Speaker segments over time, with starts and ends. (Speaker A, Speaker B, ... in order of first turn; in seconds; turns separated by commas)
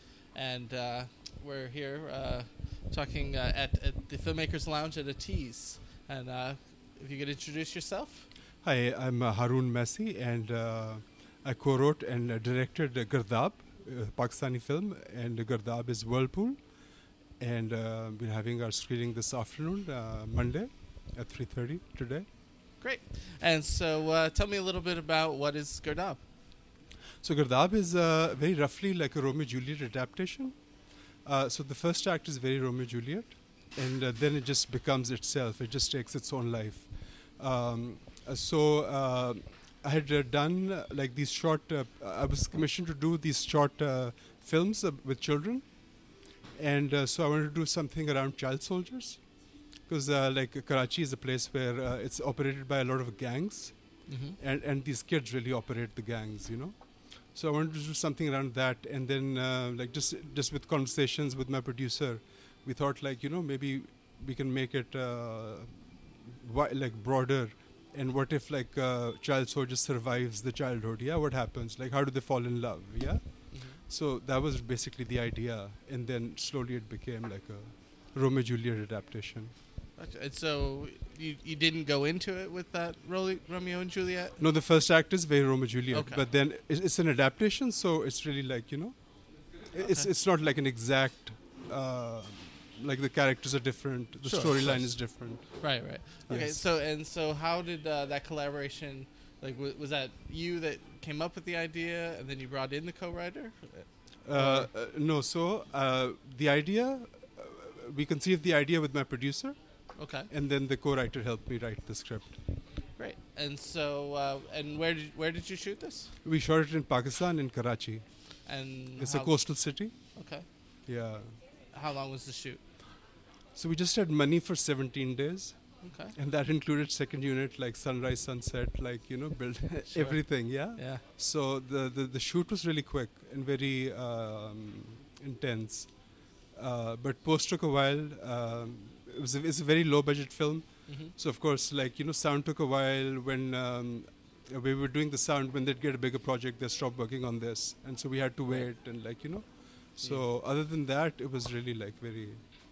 Speaker A: 0.3-8.3, Speaker B: 8.6-16.8, Speaker B: 17.4-22.2, Speaker A: 22.8-26.2, Speaker B: 27.2-30.6, Speaker B: 31.2-45.6, Speaker B: 46.5-49.2, Speaker B: 49.9-79.5, Speaker A: 54.1-54.4, Speaker A: 73.5-73.8, Speaker A: 80.0-84.4, Speaker B: 84.4-96.6, Speaker A: 85.9-86.2, Speaker A: 89.8-90.1, Speaker A: 94.2-104.7, Speaker B: 104.2-109.5, Speaker A: 110.0-110.3, Speaker B: 110.2-112.4, Speaker A: 113.0-116.1, Speaker B: 116.2-118.0, Speaker A: 118.5-119.6, Speaker B: 119.0-119.9, Speaker A: 120.2-120.4, Speaker B: 120.9-121.4, Speaker A: 121.7-122.6, Speaker B: 123.5-152.5, Speaker A: 125.8-126.1, Speaker A: 129.9-131.0, Speaker A: 140.9-141.1